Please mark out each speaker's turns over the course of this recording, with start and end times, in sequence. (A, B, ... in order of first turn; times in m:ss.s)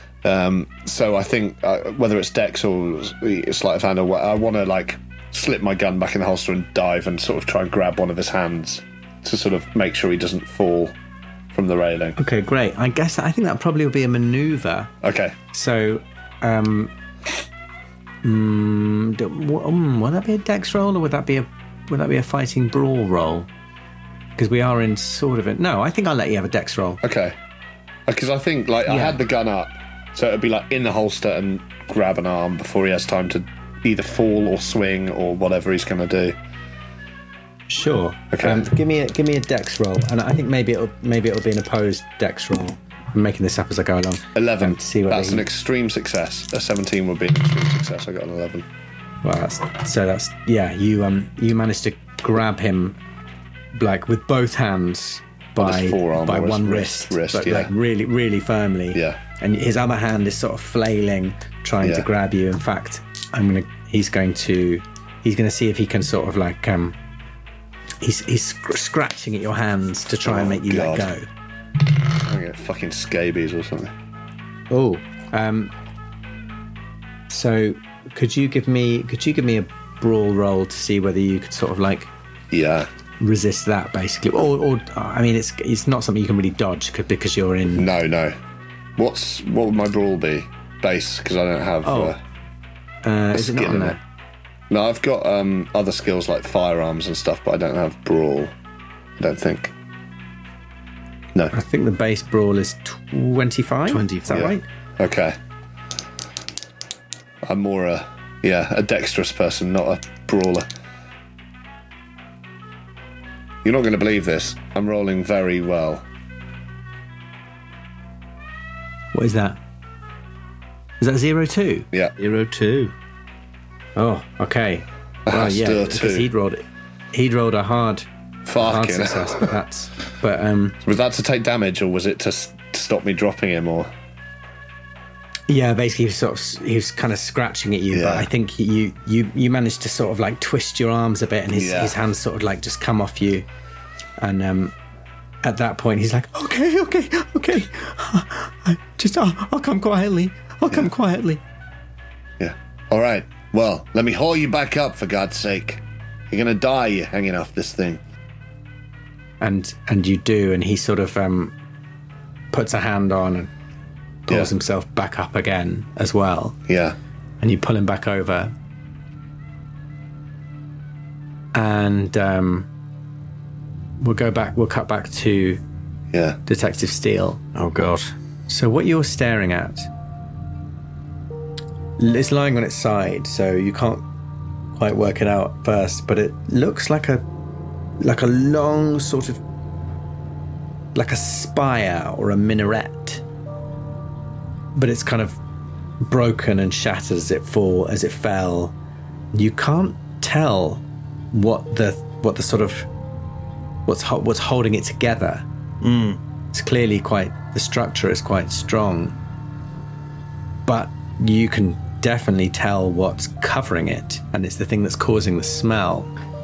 0:00.2-0:11.0 A
0:11.5-0:12.2 A
0:12.2-0:14.9 B
0:15.0-0:15.4 A
0:15.5-0:16.9 B
0:18.2-0:23.5 B
0:24.4-0:27.0 B
0:27.0-0:27.4 A
0:28.1-0:36.4 A
0:28.9-0:29.2 B
0:37.7-0:45.4 B
0:38.3-0:38.6 A
0:44.4-0:48.7 A
0:49.2-0:53.0 B
0:53.7-1:07.0 B
0:55.6-0:57.7 A
1:08.0-1:11.3 B
1:10.2-1:11.1 A
1:12.2-1:13.9 A
1:14.7-1:15.7 B
1:17.3-1:22.1 B
1:22.5-1:22.9 A
1:23.2-1:27.9 B
1:27.8-1:28.4 A
1:29.0-1:32.2 A
1:31.8-1:32.2 B
1:33.0-1:34.0 B
1:33.4-1:34.0 A
1:34.7-1:38.5 A
1:39.2-1:39.7 A
1:41.5-1:44.6 B
1:43.9-1:44.5 C
1:44.3-1:45.4 A
1:47.4-1:50.7 A
1:53.6-1:56.0 A
1:59.1-1:59.6 B
2:01.0-2:01.9 B
2:02.2-2:02.9 C
2:04.0-2:10.8 B
2:05.3-2:06.3 A
2:08.5-2:09.5 A
2:10.8-2:13.9 A
2:15.5-2:23.5 B
2:17.9-2:18.3 A
2:21.5-2:22.0 A
2:24.2-2:24.7 B
2:25.4-2:31.4 B
2:32.4-2:38.0 A
2:39.4-2:41.5 B
2:42.5-2:43.5 B
2:44.3-2:46.6 B
2:46.7-2:47.0 A
2:47.4-2:48.5 B
2:51.5-2:52.7 B
2:54.0-2:55.6 B
2:56.1-2:56.4 A
2:56.5-2:57.4 B
2:57.6-2:58.1 C
2:58.5-2:59.9 B
3:02.0-3:04.0 B
3:04.7-3:07.2 B
3:08.0-3:09.4 B
3:10.9-3:13.2 B
3:14.8-3:15.4 B
3:16.0-3:18.8 B
3:19.3-3:22.9 B
3:23.9-3:25.4 B
3:25.8-3:26.2 C
3:26.5-3:29.2 B
3:30.7-3:36.1 B